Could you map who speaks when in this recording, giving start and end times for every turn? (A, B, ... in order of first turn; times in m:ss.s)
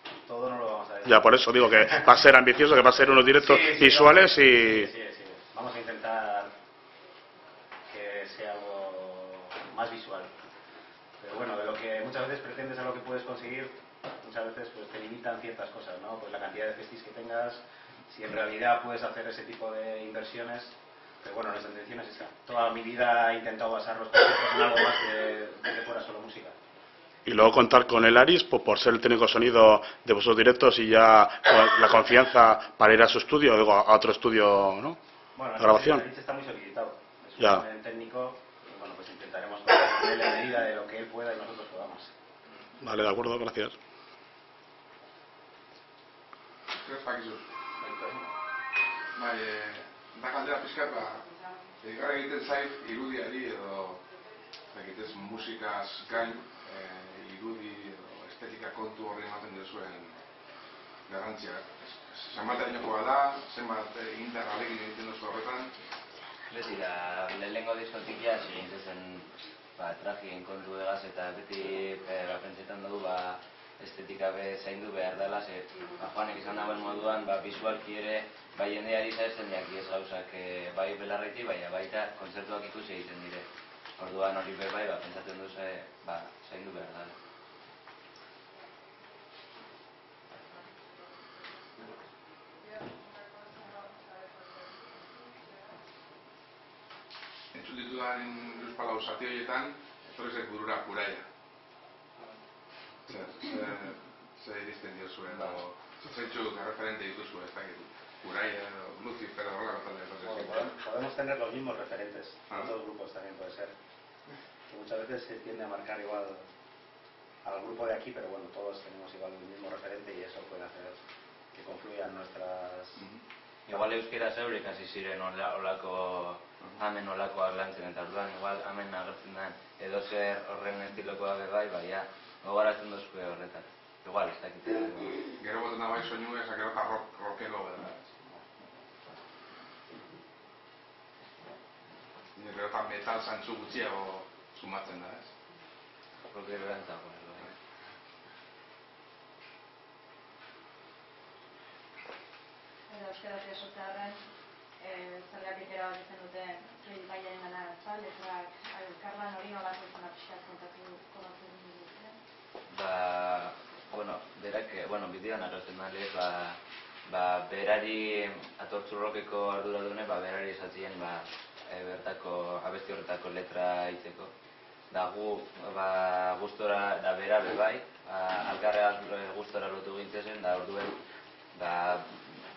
0:00.1-0:06.5 A
0:01.0-0:04.9 B
0:07.9-0:10.3 A
0:11.2-0:26.6 A
0:27.2-0:35.0 B
0:35.3-0:42.1 A
0:35.6-0:36.0 B
0:42.8-0:43.7 B
0:46.7-0:48.2 C
0:49.1-0:51.3 C
0:51.8-0:54.0 C
0:54.7-1:00.2 C
1:01.1-1:05.7 C
1:06.5-1:27.2 D
1:37.5-1:41.2 C
1:43.1-1:50.7 C
1:50.2-1:53.7 A
1:54.7-1:56.5 A
1:57.4-2:01.0 A
2:01.5-2:03.0 A
2:03.7-2:15.2 D
2:15.4-2:18.1 C
2:22.3-2:25.3 C
2:26.3-2:27.5 D
2:32.9-2:34.2 E
2:34.8-2:42.2 E
2:42.7-2:54.3 D
2:54.9-3:01.0 D
3:01.5-3:02.2 D